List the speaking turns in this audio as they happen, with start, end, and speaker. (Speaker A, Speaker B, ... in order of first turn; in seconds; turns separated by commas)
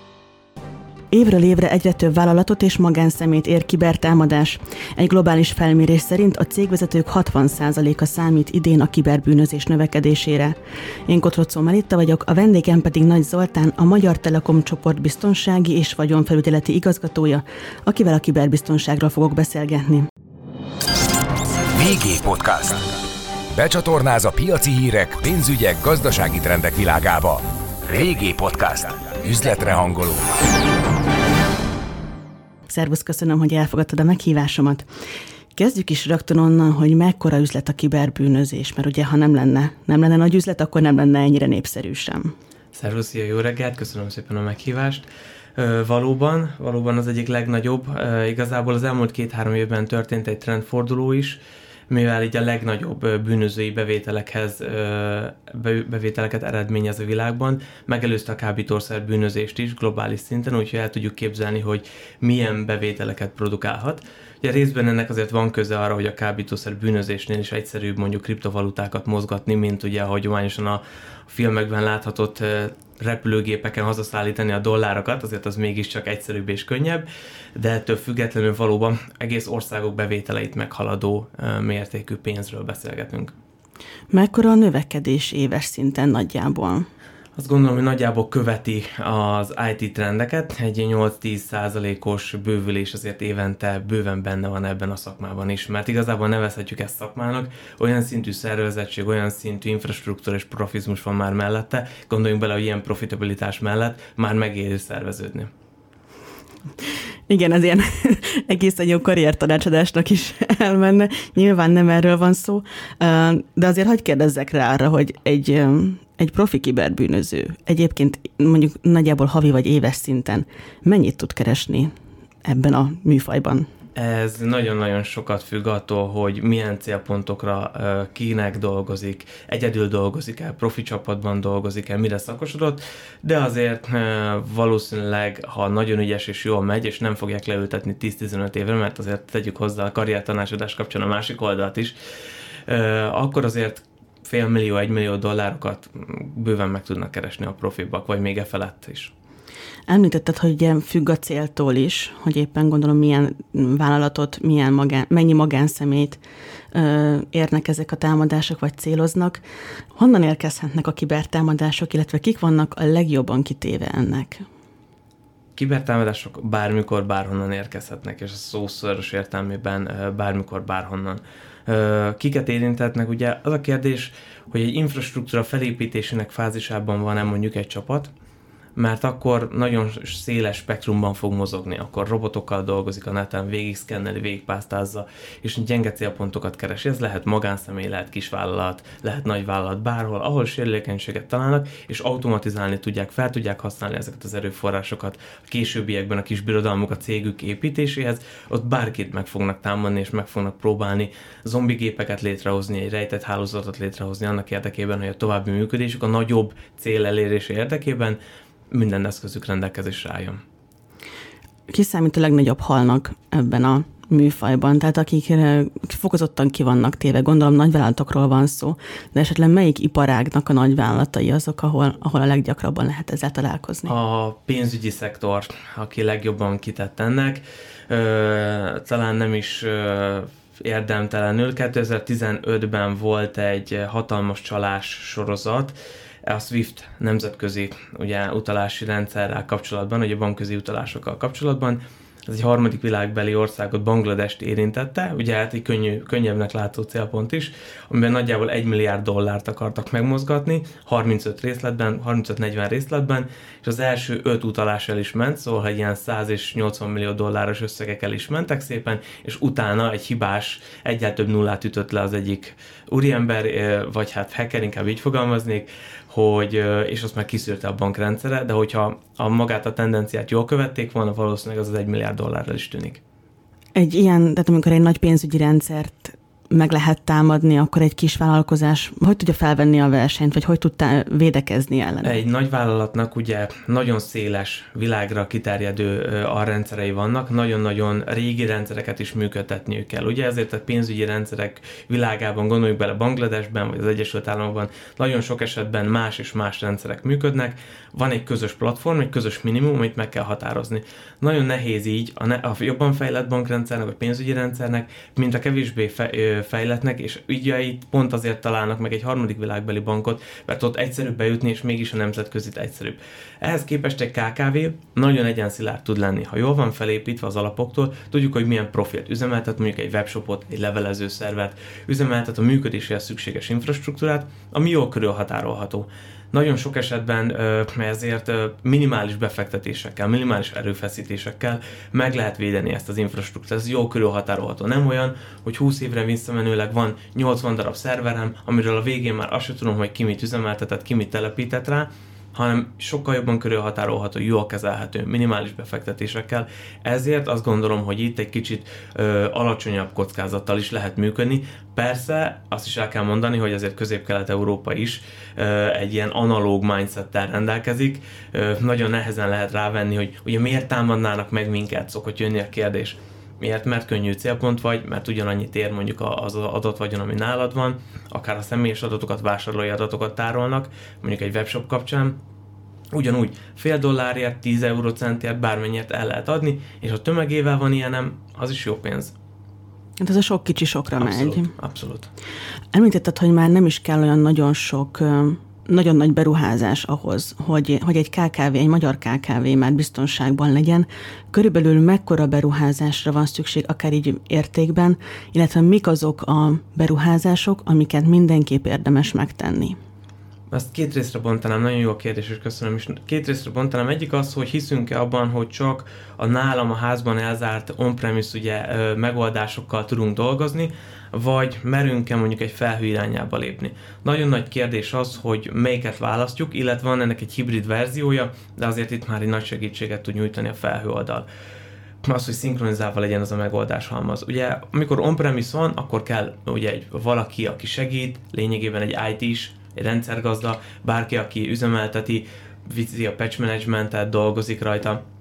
Speaker A: 1.1-10.5, Speaker A: 11.1-20.1, Speaker B: 21.7-22.9, Speaker B: 23.5-30.2, Speaker A: 32.7-34.9, Speaker A: 35.5-42.3, Speaker C: 42.7-83.3, Speaker A: 84.1-86.9, Speaker C: 87.3-105.5, Speaker A: 107.3-121.9, Speaker A: 122.4-123.7, Speaker C: 124.0-141.9, Speaker C: 142.7-149.1, Speaker A: 149.9-156.2, Speaker A: 156.7-159.4, Speaker A: 159.9-164.4, Speaker C: 165.6-178.1, Speaker C: 178.8-208.2, Speaker C: 208.7-210.4, Speaker A: 211.7-223.9, Speaker C: 223.8-273.0, Speaker A: 273.7-282.2, Speaker C: 282.0-372.2, Speaker C: 372.9-379.1, Speaker A: 380.0-381.5, Speaker C: 381.0-382.1, Speaker A: 382.7-399.8, Speaker C: 400.5-421.2, Speaker C: 422.0-435.0